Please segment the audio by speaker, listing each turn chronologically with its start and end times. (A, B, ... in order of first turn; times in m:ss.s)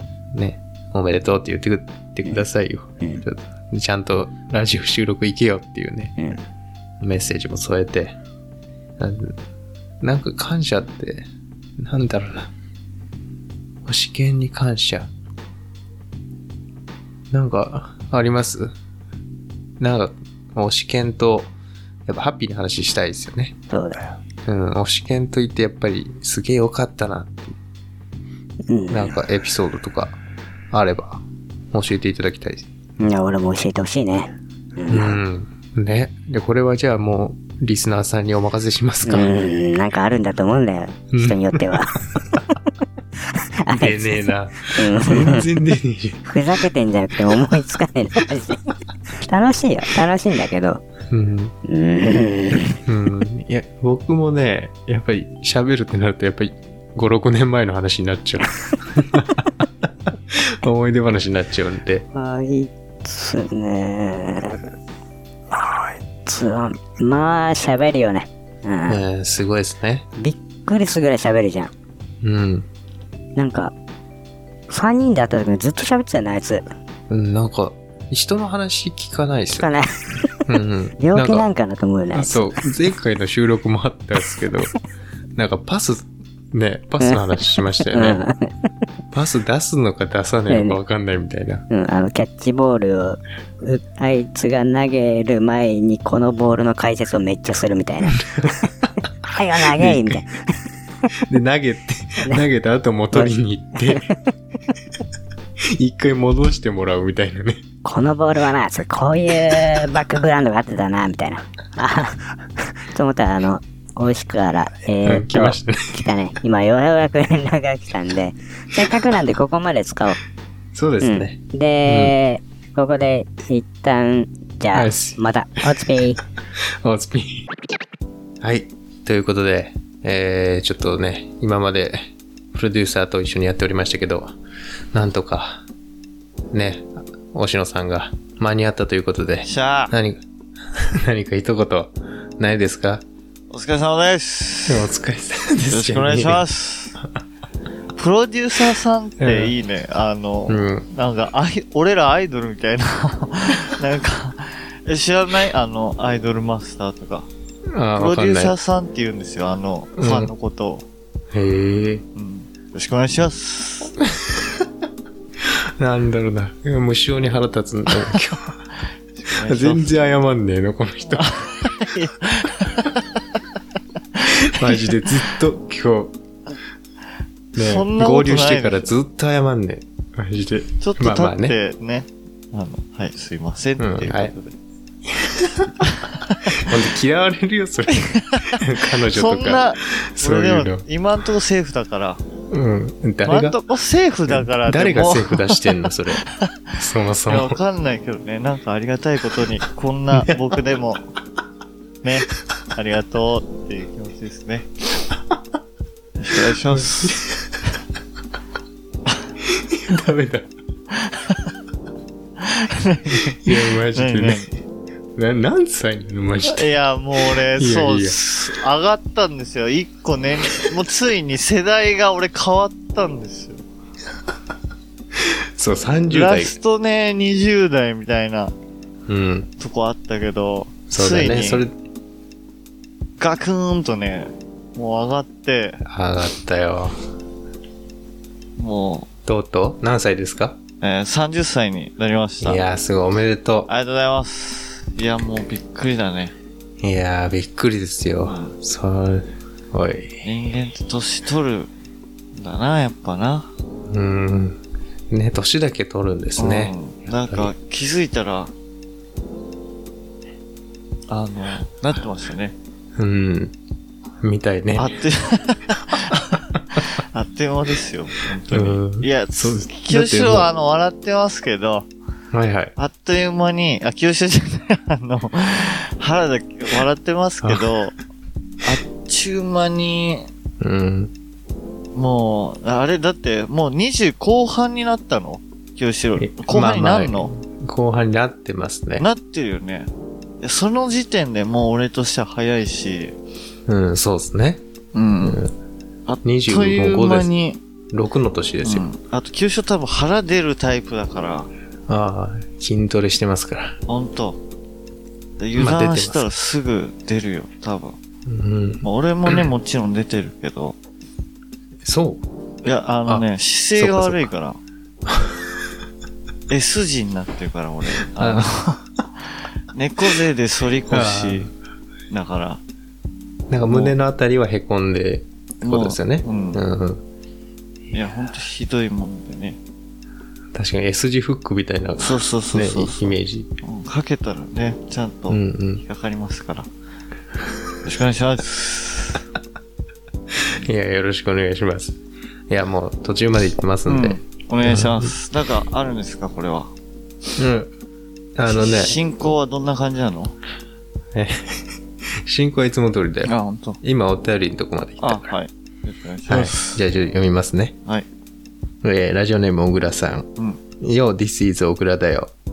0:00.3-0:06.1 A
0:07.0-0:08.2 A
0:09.0-0:09.4 A
0:10.0-0:12.5 A
0:13.8-0:15.1 A
0:17.3-0:18.7 A
0:19.8-0:21.5 A
0:22.1-0:23.6 A
0:23.7-0:24.0 B
0:24.4-0:27.6 A
0:28.7-0:29.1 B
0:28.9-0:30.2 A
0:30.7-0:32.7 A
0:33.0-0:35.2 B
0:34.9-0:39.3 A
0:39.0-0:42.0 B
0:41.1-0:41.8 A
0:43.3-0:45.5 B
0:43.7-0:46.2 A
0:46.2-0:50.8 B
0:51.1-0:51.5 A
0:51.6-0:52.8 B
0:52.8-1:02.1 A
1:02.1-1:04.6 B
1:05.5-1:09.0 B
1:08.9-1:10.1 A
1:10.2-1:11.7 B
1:12.2-1:12.7 A
1:13.4-1:13.7 B
1:14.7-1:16.6 B
1:17.1-1:19.7 A
1:19.6-1:20.4 B
1:20.5-1:21.4 A
1:21.0-1:22.4 B
1:22.1-1:24.7 A
1:25.4-1:28.2 A
1:27.0-1:28.7 B
1:29.1-1:31.6 A
1:30.5-1:30.8 B
1:31.7-1:38.2 B
1:39.3-1:40.4 B
1:39.6-1:40.2 A
1:41.2-1:44.1 A
1:43.8-1:44.1 B
1:45.7-1:47.6 A
1:47.8-2:00.2 B
1:55.0-1:56.0 A
2:00.7-2:02.1 A
2:01.0-2:06.2 B
2:04.7-2:05.2 A
2:06.6-2:07.5 A
2:08.4-2:14.3 A
2:14.9-2:15.6 A
2:16.5-2:20.2 A
2:19.4-2:19.9 C
2:20.7-2:23.0 A
2:23.5-2:24.9 C
2:24.7-2:26.4 A
2:25.7-2:27.0 C
2:28.0-2:37.3 C
2:29.2-2:29.5 A
2:30.5-2:30.9 A
2:37.7-2:38.5 A
2:38.0-2:40.8 C
2:40.0-2:40.3 A
2:41.3-2:42.0 A
2:42.2-2:44.0 C
2:45.4-2:48.5 A
2:49.2-2:50.0 C
2:49.4-2:51.4 A
2:51.1-2:53.0 C
2:54.2-2:54.9 C
2:54.4-2:56.1 A
2:57.5-2:58.9 C
2:57.5-3:01.6 A
3:00.8-3:04.5 C
3:03.8-3:04.3 A
3:05.1-3:05.8 A
3:05.8-3:06.6 C
3:06.6-3:10.8 A
3:07.9-3:12.2 C
3:12.5-3:13.6 A
3:13.2-3:16.6 C
3:14.3-3:17.6 A
3:17.3-3:21.0 C
3:22.0-3:24.7 C
3:26.2-3:27.2 C
3:26.7-3:27.5 A
3:29.4-3:30.5 A
3:31.0-3:31.5 C
3:32.4-3:34.5 C
3:33.4-3:34.5 A
3:35.2-3:36.7 A
3:36.4-3:43.6 C
3:37.3-3:38.2 A
3:45.1-3:46.6 A
3:46.1-3:48.5 C
3:49.1-3:49.5 A
3:49.6-3:51.6 C
3:50.9-3:51.7 A
3:53.2-3:55.8 C
3:55.8-3:57.0 A
3:58.6-3:59.1 C
3:59.3-4:00.6 A
4:00.8-4:02.6 C
4:02.4-4:03.7 A
4:03.7-4:06.3 C
4:06.8-4:10.2 A
4:08.2-4:08.5 C
4:10.2-4:11.7 C
4:12.4-4:13.5 C
4:13.9-4:16.7 A
4:16.4-4:18.5 C
4:21.1-4:22.5 C
4:23.0-4:23.5 A
4:24.2-4:24.9 A
4:24.8-4:31.9 C
4:28.5-4:30.5 A
4:32.3-4:32.7 A
4:32.8-4:38.0 C
4:38.6-4:40.3 C
4:40.6-4:41.1 A
4:41.9-4:47.3 C
4:46.2-4:49.0 A
4:49.0-4:49.9 C
4:50.4-4:53.1 C
4:53.7-4:54.6 A
4:54.9-4:55.4 C
4:55.2-4:55.5 A
4:56.1-4:57.6 C
4:56.2-4:57.3 A
4:57.9-4:58.8 A
4:58.6-5:01.5 C
5:01.9-5:03.8 A
5:03.9-5:04.4 C
5:05.4-5:08.0 C
5:05.6-5:06.3 A
5:08.2-5:09.5 A
5:08.8-5:10.8 C
5:11.8-5:12.2 A
5:12.6-5:14.6 C
5:13.1-5:14.3 A
5:15.1-5:15.4 A
5:16.5-5:18.8 C
5:18.2-5:18.5 A
5:19.7-5:21.5 C
5:20.9-5:21.5 A
5:22.1-5:22.6 C
5:23.5-5:27.0 A
5:23.7-5:23.9 C
5:25.6-5:26.6 C
5:27.9-5:29.6 C
5:30.5-5:33.5 A
5:32.0-5:36.7 C
5:35.3-5:35.8 A
5:37.8-5:39.2 C
5:40.3-5:42.0 A
5:42.5-5:45.1 A
5:43.8-5:46.7 C
5:47.4-5:47.7 A
5:48.4-5:49.0 A
5:48.4-5:50.3 C
5:51.1-5:55.3 A
5:53.2-5:53.8 C
5:55.0-5:56.8 C
5:56.3-5:57.7 A
5:58.8-6:00.3 A
6:00.8-6:02.3 A